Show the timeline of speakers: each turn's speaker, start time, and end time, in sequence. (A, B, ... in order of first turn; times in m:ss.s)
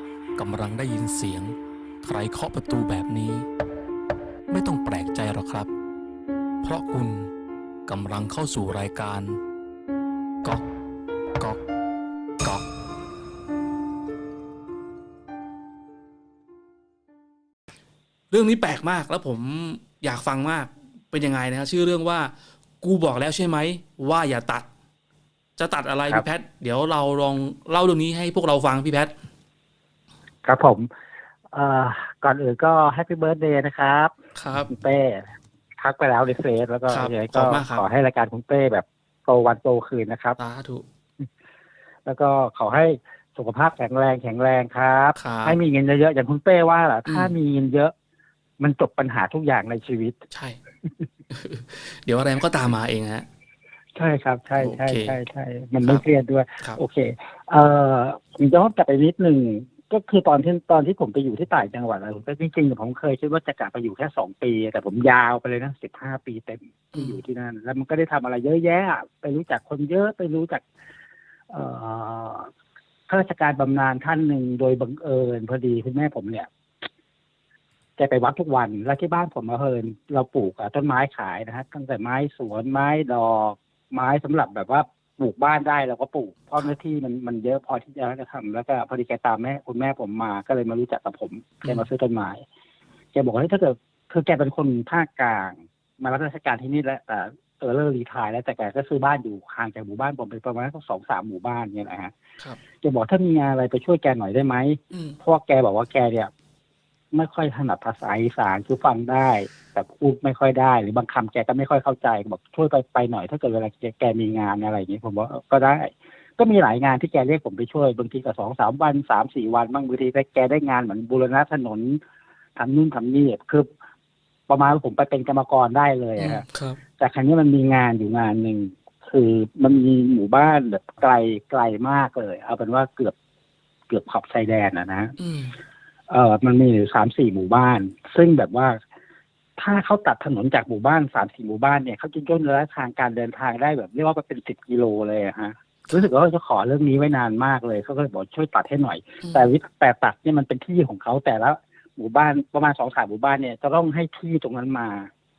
0:00.4-0:01.4 A
0:00.4-0:01.5 B
0:02.0-0:03.4 A
0:02.0-0:03.4 B
0:04.5-0:05.7 A
0:04.5-0:05.6 B
0:06.6-0:07.3 A
0:06.6-0:07.1 B
0:07.9-0:09.3 A
0:07.9-0:09.2 B
0:18.3-0:24.7 B
0:25.6-0:29.1 B
0:30.4-0:30.9 C
0:31.5-0:34.1 C
0:34.3-0:34.7 B
0:34.7-0:40.4 C
0:36.9-0:37.8 B
0:40.4-0:40.8 B
0:42.0-0:47.9 C
0:45.2-0:45.6 B
0:47.0-0:47.3 B
0:48.6-0:50.2 C
0:50.3-0:50.6 B
0:51.3-0:53.2 B
0:53.9-1:10.6 C
0:54.6-0:55.2 B
1:06.9-1:07.2 B
1:11.5-1:12.5 C
1:13.1-1:16.5 C
1:18.0-1:32.4 C
1:33.1-1:42.1 C
1:42.8-1:46.3 C
1:44.9-1:45.2 B
1:47.1-2:02.0 C
2:02.6-2:03.7 C
2:04.5-2:06.4 C
2:06.2-2:06.8 B
2:07.0-2:13.1 C
2:13.9-2:15.1 C
2:15.2-2:15.5 B
2:16.1-2:18.8 C
2:19.6-2:35.1 C
2:29.2-2:29.5 B